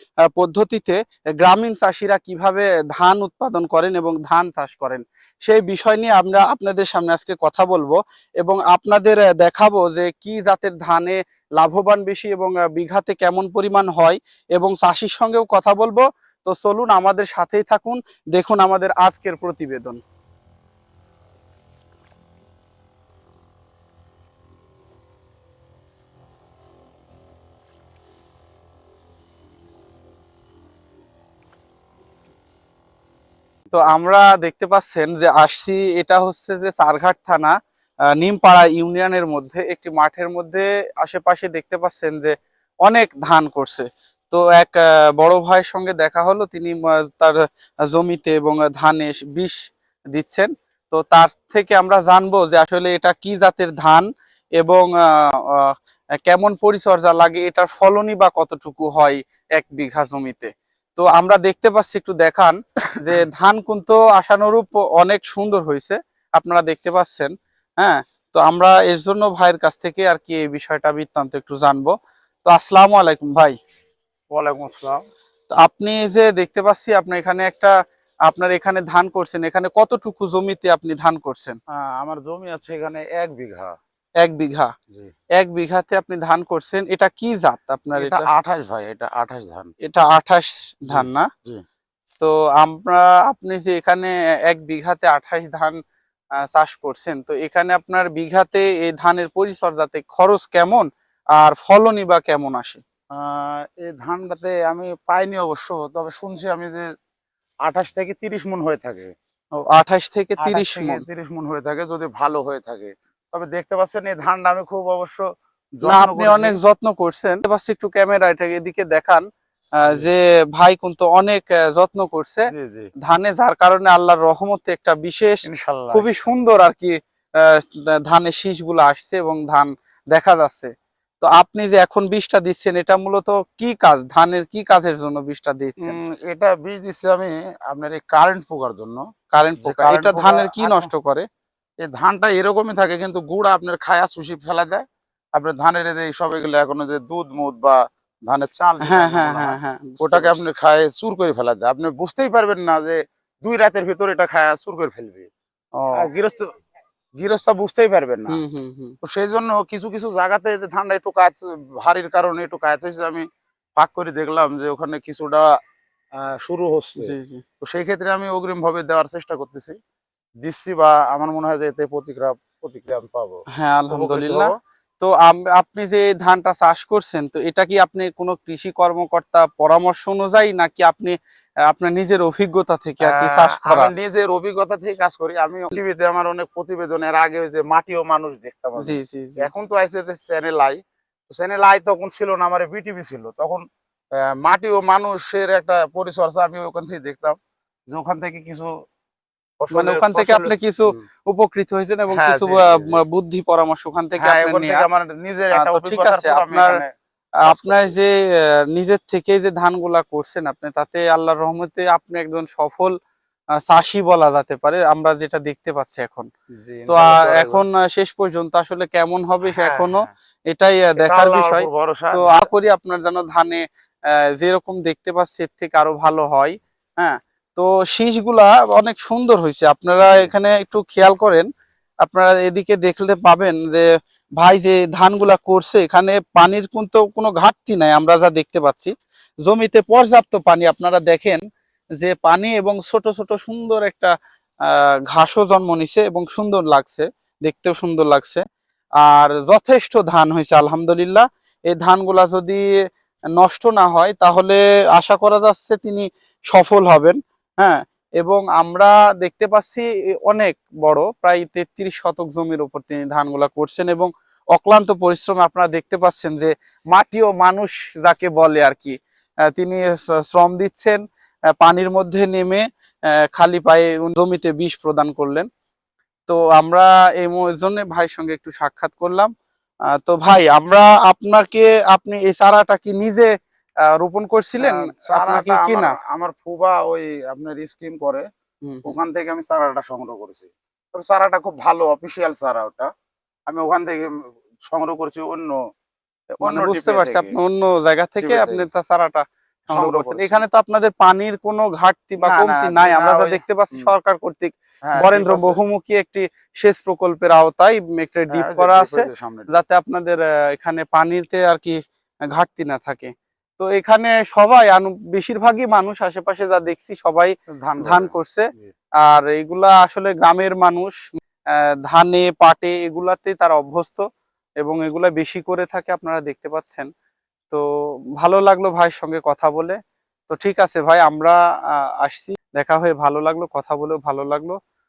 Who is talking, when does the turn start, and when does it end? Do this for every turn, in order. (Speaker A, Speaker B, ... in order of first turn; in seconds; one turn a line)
Speaker A: 0.3-20.0
Speaker A: 33.7-37.5
Speaker A: 38.1-42.3
Speaker A: 42.9-49.6
Speaker A: 50.1-71.9
Speaker A: 72.5-73.5
Speaker B: 74.3-75.0
Speaker A: 75.5-77.7
Speaker A: 78.3-81.6
Speaker B: 81.7-83.8
Speaker A: 84.2-84.7
Speaker A: 85.4-88.2
Speaker B: 88.0-89.7
Speaker A: 89.8-91.3
Speaker B: 90.9-91.6
Speaker A: 92.2-95.8
Speaker A: 96.5-102.8
Speaker B: 103.2-106.9
Speaker B: 107.7-109.1
Speaker A: 109.7-111.0
Speaker B: 110.4-115.2
Speaker B: 115.8-116.5
Speaker A: 115.8-119.2
Speaker A: 119.8-122.5
Speaker B: 122.5-122.9
Speaker A: 123.0-136.0
Speaker B: 125.5-126.1
Speaker B: 135.8-139.1
Speaker A: 139.3-141.3
Speaker B: 139.6-140.9
Speaker B: 141.8-144.8
Speaker B: 145.4-155.3
Speaker A: 148.9-150.5
Speaker A: 155.8-156.1
Speaker B: 156.0-156.5
Speaker B: 157.2-158.4
Speaker A: 158.3-158.9
Speaker B: 159.0-165.5
Speaker B: 166.2-169.8
Speaker A: 167.0-167.4
Speaker B: 170.4-174.5
Speaker A: 173.5-181.2
Speaker A: 181.7-183.9
Speaker B: 183.1-193.6
Speaker A: 188.8-189.5
Speaker B: 194.2-197.4
Speaker B: 197.9-198.7
Speaker B: 199.6-201.1
Speaker A: 199.7-204.8
Speaker B: 202.1-203.0
Speaker B: 204.2-206.9
Speaker A: 205.6-206.8
Speaker B: 207.5-208.0
Speaker A: 207.5-212.9
Speaker A: 213.6-216.3
Speaker B: 216.6-217.6
Speaker A: 216.9-223.6
Speaker B: 219.4-220.1
Speaker B: 221.0-222.5
Speaker A: 224.1-231.5
Speaker A: 232.1-233.9
Speaker A: 234.4-238.9
Speaker A: 239.5-241.4
Speaker A: 242.0-244.1
Speaker A: 244.7-248.4
Speaker A: 249.0-252.6
Speaker A: 253.3-269.0
Speaker A: 269.5-271.0
Speaker A: 271.6-272.7
Speaker A: 273.3-275.5
Speaker A: 276.3-279.3
Speaker A: 279.9-283.3
Speaker A: 283.9-286.0
Speaker B: 284.6-288.2
Speaker A: 288.6-288.9
Speaker B: 288.9-292.9
Speaker B: 293.5-295.6
Speaker B: 296.3-297.3
Speaker A: 296.4-318.5
Speaker B: 298.2-298.7
Speaker B: 299.7-300.4
Speaker B: 302.2-303.9
Speaker B: 304.9-305.6
Speaker B: 308.3-309.5
Speaker B: 317.6-318.7
Speaker A: 319.0-321.0
Speaker A: 321.5-324.1
Speaker A: 324.6-326.9
Speaker A: 328.2-329.8
Speaker A: 330.3-334.6